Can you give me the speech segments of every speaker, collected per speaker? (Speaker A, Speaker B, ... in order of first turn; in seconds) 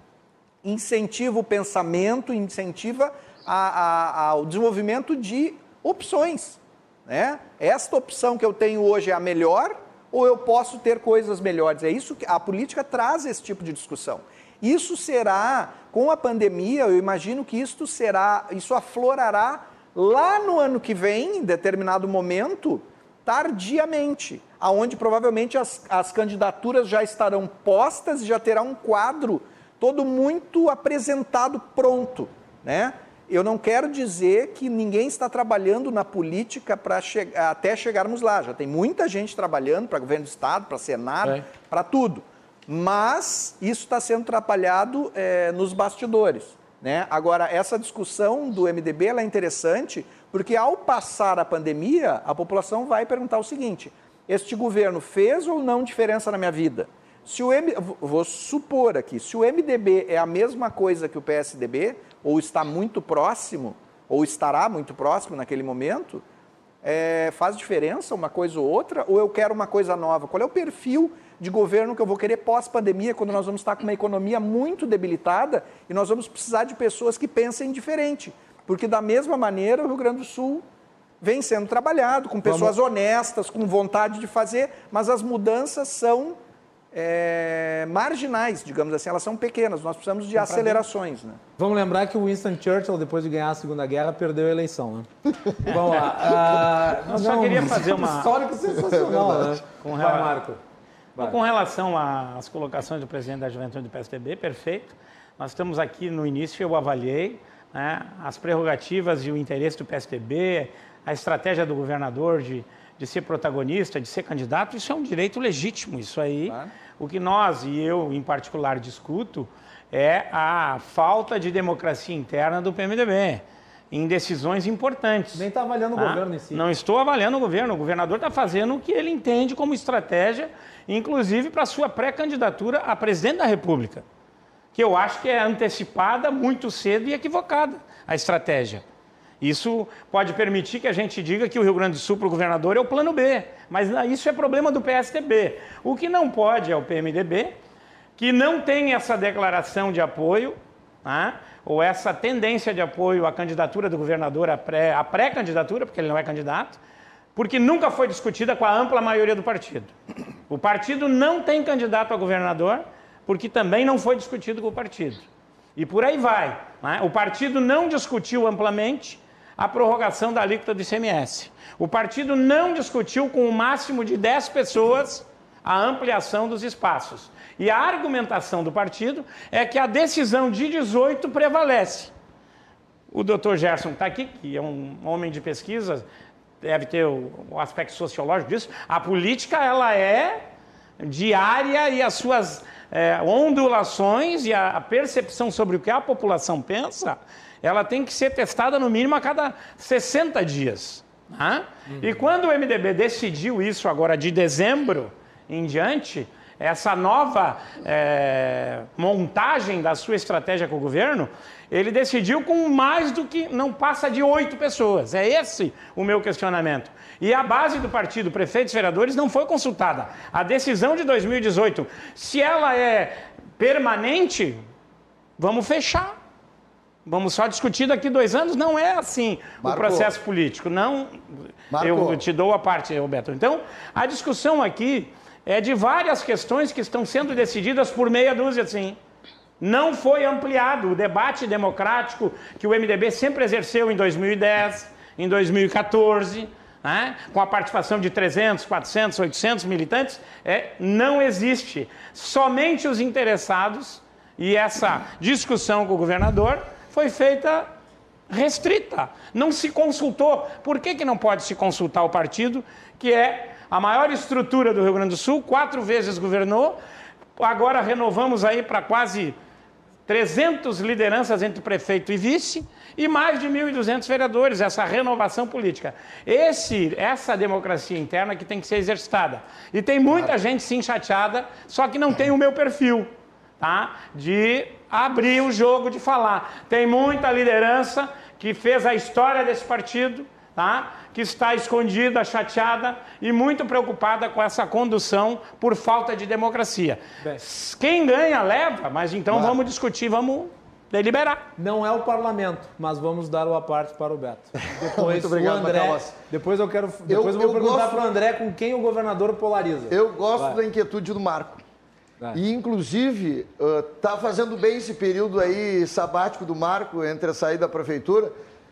Speaker A: 0.6-66.2, 66.8-80.6, 81.2-86.4, 86.9-91.4
Speaker B: 82.4-82.7, 91.6-100.6, 125.3-126.6, 301.6-310.6
Speaker C: 90.4-90.8, 95.7-96.4, 97.0-98.3, 99.8-100.3, 101.2-134.0, 134.7-138.8, 139.4-147.6, 148.2-156.8, 157.3-159.9, 160.5-182.1, 183.1-186.0, 186.6-190.5, 191.0-224.6, 225.4-226.2, 227.0-239.0, 239.6-257.7, 258.3-266.8, 267.4-269.4, 270.1-301.4
Speaker D: 98.7-99.6, 229.6-230.1, 231.7-232.2, 304.7-306.2, 307.1-308.0, 309.9-311.6, 312.3-318.3